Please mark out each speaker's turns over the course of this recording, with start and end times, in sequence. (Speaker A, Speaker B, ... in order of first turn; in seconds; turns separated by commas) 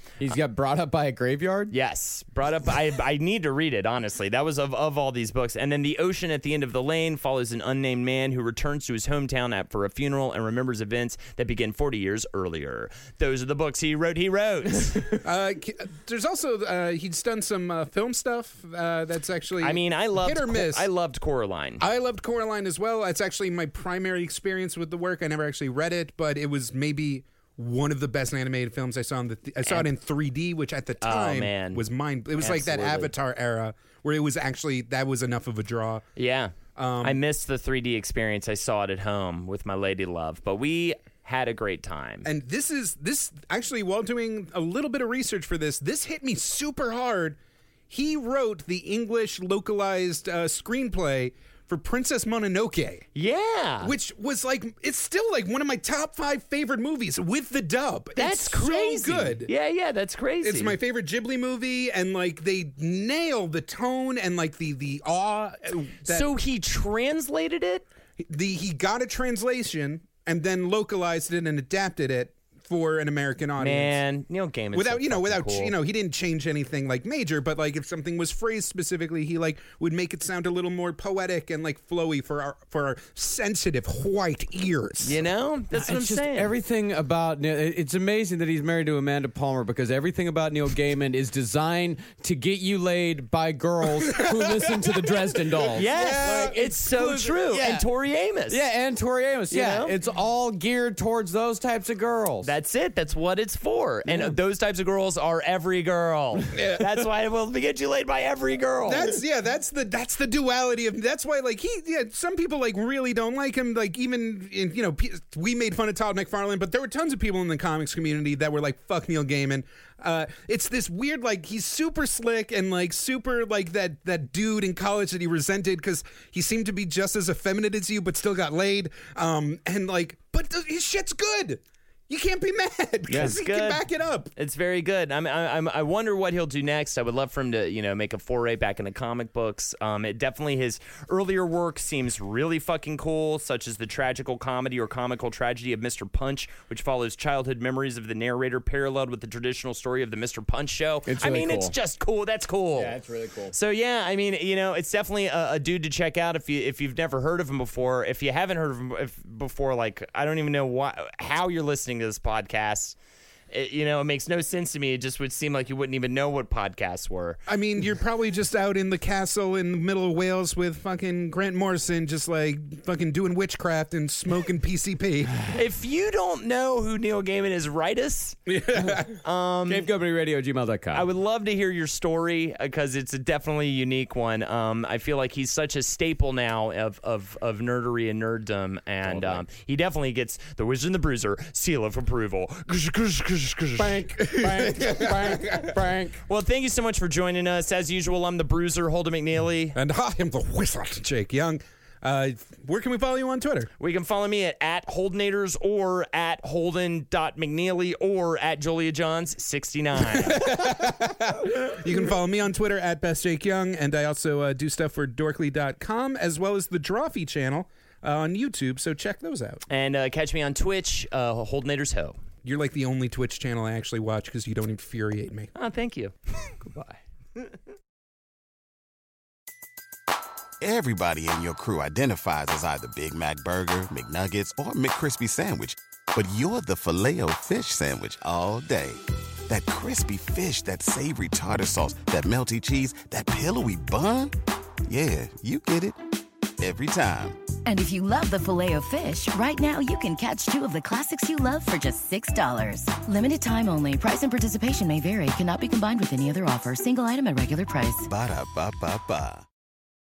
Speaker A: 0.2-1.7, Speaker B: 1.7-15.1, Speaker C: 15.2-20.9, Speaker B: 19.6-21.8, Speaker C: 21.8-36.1, Speaker B: 31.0-31.8, Speaker B: 32.4-33.1, Speaker B: 36.2-42.3, Speaker C: 36.8-37.2, Speaker C: 42.2-47.4, Speaker C: 47.9-53.1, Speaker B: 53.1-53.9, Speaker C: 53.8-59.5, Speaker B: 58.2-60.8, Speaker C: 60.4-66.3, Speaker B: 66.1-67.9, Speaker C: 68.2-74.0, Speaker B: 73.6-75.7, Speaker C: 74.7-85.2, Speaker B: 85.0-86.5, Speaker A: 85.8-97.9, Speaker C: 94.1-95.0, Speaker B: 95.7-98.6, Speaker C: 95.8-96.6, Speaker A: 98.5-102.5, Speaker B: 99.5-100.0, Speaker B: 102.4-109.2, Speaker A: 104.1-104.3, Speaker C: 106.5-106.9, Speaker C: 108.9-134.3, Speaker A: 133.1-133.3, Speaker B: 133.2-133.8, Speaker B: 134.4-153.0, Speaker A: 151.1-151.8, Speaker A: 152.8-153.6, Speaker B: 153.5-163.0, Speaker B: 163.5-167.4, Speaker C: 167.5-175.4, Speaker B: 175.5-178.4, Speaker C: 178.5-179.2, Speaker B: 179.2-179.9, Speaker A: 179.7-181.1, Speaker B: 180.9-194.0, Speaker A: 189.0-189.4, Speaker A: 193.8-196.2, Speaker C: 194.2-195.8, Speaker B: 196.3-199.8, Speaker C: 199.8-203.7, Speaker B: 203.8-210.4, Speaker C: 210.2-219.6, Speaker B: 219.7-222.2, Speaker C: 222.4-225.5, Speaker B: 225.6-226.5, Speaker A: 226.6-227.0, Speaker D: 230.6-244.3, Speaker D: 244.9-246.0, Speaker D: 246.6-247.4, Speaker E: 247.7-258.1, Speaker D: 258.1-259.4